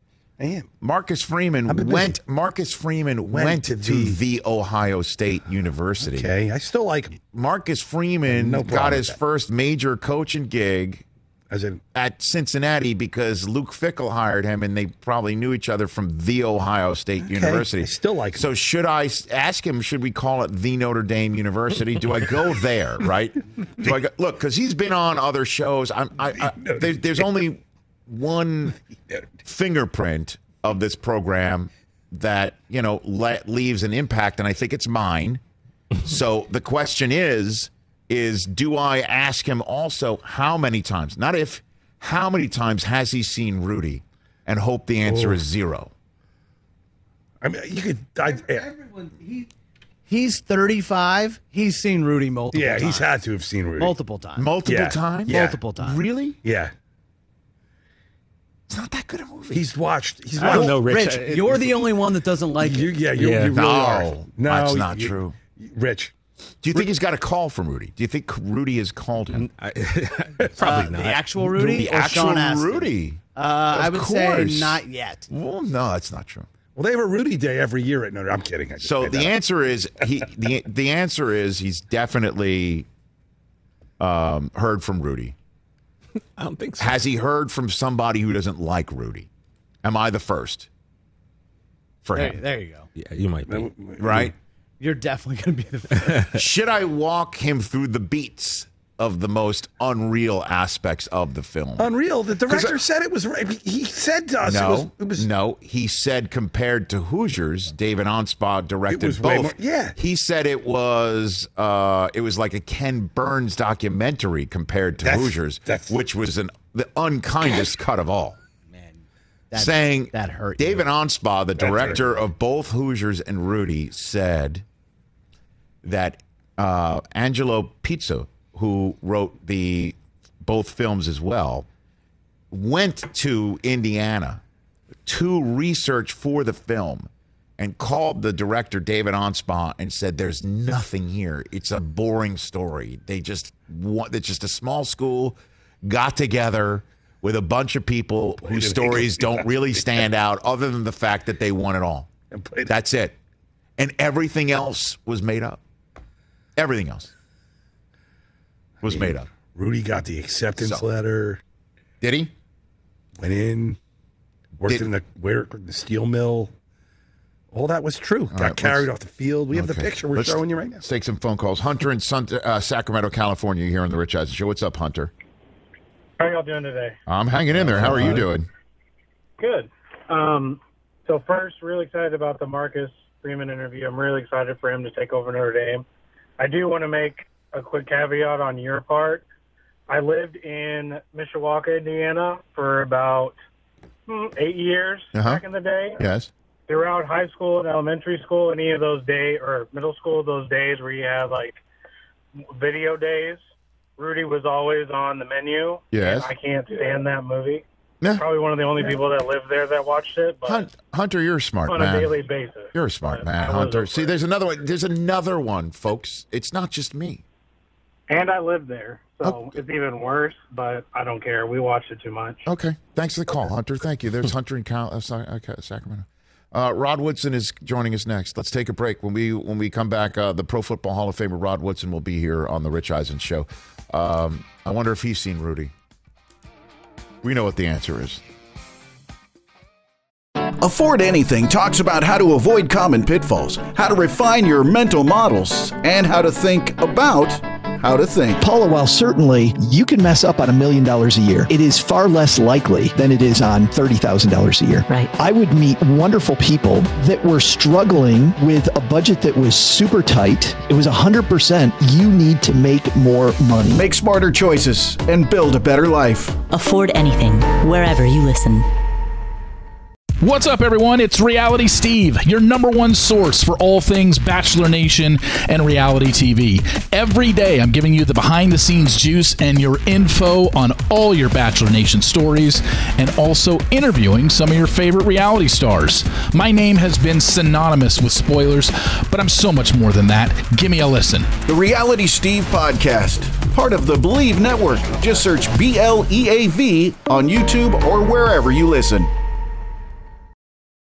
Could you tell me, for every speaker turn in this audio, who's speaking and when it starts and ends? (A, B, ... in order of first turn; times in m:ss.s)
0:00.4-0:00.7 A
0:00.8-0:06.3 B
0:01.7-0:02.2 A
0:03.3-0:04.2 A
0:06.0-0:07.2 A
0:07.3-0:11.0 B
0:08.3-0:09.2 A
0:11.5-0:11.8 A
0:11.9-0:28.8 B
0:17.3-0:18.5 A
0:26.4-0:27.3 A
0:29.4-0:35.4 B
0:36.0-0:45.9 B
0:45.0-0:45.4 A
0:47.4-0:48.7 A
0:48.2-0:49.5 C
0:50.1-0:53.2 C
0:52.5-0:53.9 A
0:53.8-0:54.5 C
0:54.4-0:56.4 B
0:54.6-0:55.6 A
0:55.3-0:56.0 C
0:56.4-0:56.7 A
0:58.7-0:59.7 B
0:59.5-1:00.8 A
1:00.4-1:01.8 D
1:00.4-1:03.0 C
1:02.6-1:06.1 A
1:03.2-1:03.6 D
1:03.5-1:05.4 B
1:06.6-1:09.5 B
1:09.4-1:11.2 D
1:10.6-1:15.3 C
1:11.4-1:16.5 B
1:16.7-1:19.4 A
1:18.8-1:22.9 B
1:24.0-1:25.4 B
1:26.4-1:27.0 D
1:26.8-1:29.3 B
1:29.8-1:30.7 B
1:32.0-1:32.4 B
1:32.1-1:32.9 C
1:33.0-1:33.7 D
1:33.5-1:34.3 A
1:34.0-1:34.3 B
1:34.8-1:36.3 C
1:36.0-1:36.3 D
1:36.3-1:42.8 B
1:41.8-1:45.3 A
1:44.4-1:58.4 B
1:48.9-1:50.0 A
1:55.0-1:56.0 A
1:58.7-1:59.0 C
1:59.5-2:00.9 C
1:59.5-2:04.6 B
2:01.6-2:02.2 A
2:05.8-2:11.6 B
2:12.5-2:14.4 B
2:15.0-2:32.1 B
2:28.4-2:29.9 A
2:32.3-2:32.7 A
2:32.6-2:33.2 B
2:33.8-2:35.6 B
2:36.6-2:37.1 B
2:38.8-2:39.3 B
2:38.8-2:41.4 A
2:40.6-2:40.9 B
2:42.0-2:42.3 B
2:43.2-2:43.8 A
2:44.6-2:46.5 A
2:47.5-2:50.8 A
2:48.3-2:48.9 B
2:49.5-2:55.1 B
2:56.2-2:57.0 E
2:57.1-2:58.5 B
2:57.6-2:58.2 A
2:59.4-3:05.9 E
3:06.4-3:09.2 E
3:09.9-3:13.4 E
3:14.1-3:16.0 E
3:15.1-3:16.3 B
3:16.7-3:21.6 E
3:22.4-3:23.4 E
3:24.0-3:27.6 E
3:25.9-3:26.3 B
3:28.0-3:28.3 B
3:28.2-3:30.7 E
3:30.4-3:32.2 B
3:31.7-3:34.1 E
3:32.7-3:37.2 B
3:38.1-3:42.5 E
3:39.2-3:39.5 B
3:42.4-3:55.7 B
3:57.2-3:58.2 B
4:00.6-4:08.4 F
4:08.4-4:23.9 G
4:23.7-4:26.4 F
4:26.5-4:28.7 H
4:30.2-4:51.4 I
4:51.4-4:59.1 F